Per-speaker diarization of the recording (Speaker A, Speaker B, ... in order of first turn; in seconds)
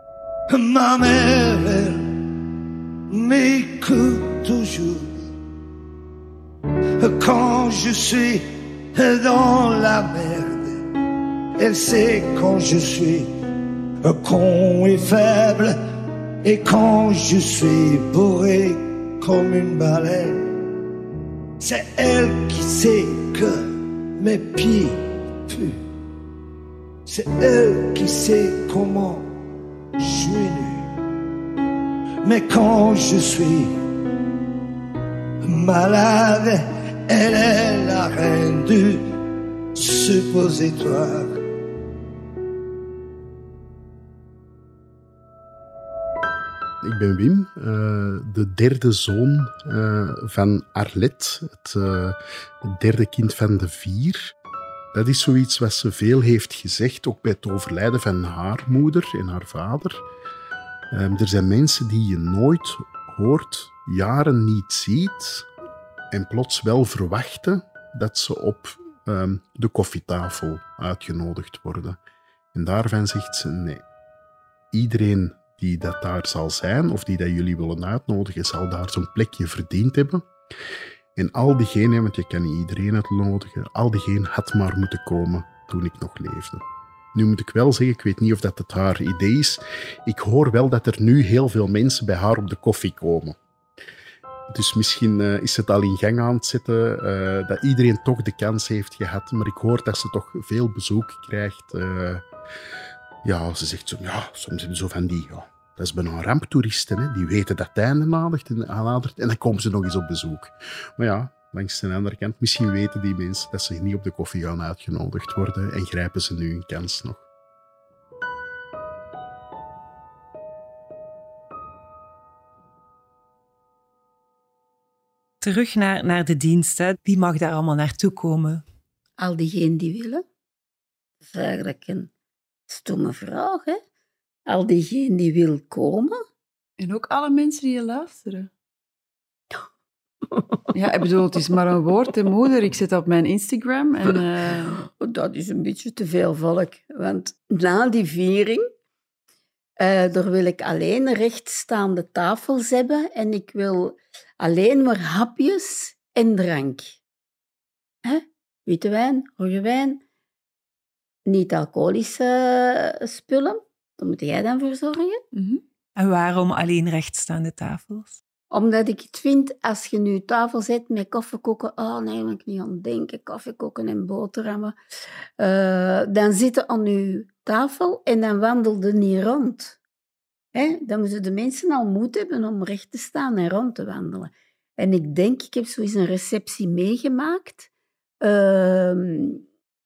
Speaker A: 0.5-2.0, 3.1-5.2, 7.0-10.8, 11.6-13.3, 14.0-15.8, 16.4-20.4, 21.6-23.6, 24.2-25.8, 27.1-29.3, 30.0-30.9, 32.2-33.7, 35.4-39.0, 39.8-41.4
Speaker B: 46.8-54.3, 54.9-60.0, 60.9-65.5, 66.1-72.0, 72.5-73.8, 74.7-80.2, 81.2-86.6, 87.1-93.4, 94.5-102.2, 103.2-117.2
Speaker C: 125.4-128.6, 166.0-168.2
Speaker D: 129.2-130.2, 131.2-132.1, 132.7-133.8, 134.5-136.2, 140.2-140.6, 144.8-148.7, 149.8-157.0, 158.0-160.0, 161.3-165.2, 168.5-174.8, 175.4-179.8, 180.5-187.7, 188.2-189.4
Speaker E: 136.8-138.5, 140.7-144.8, 165.3-165.6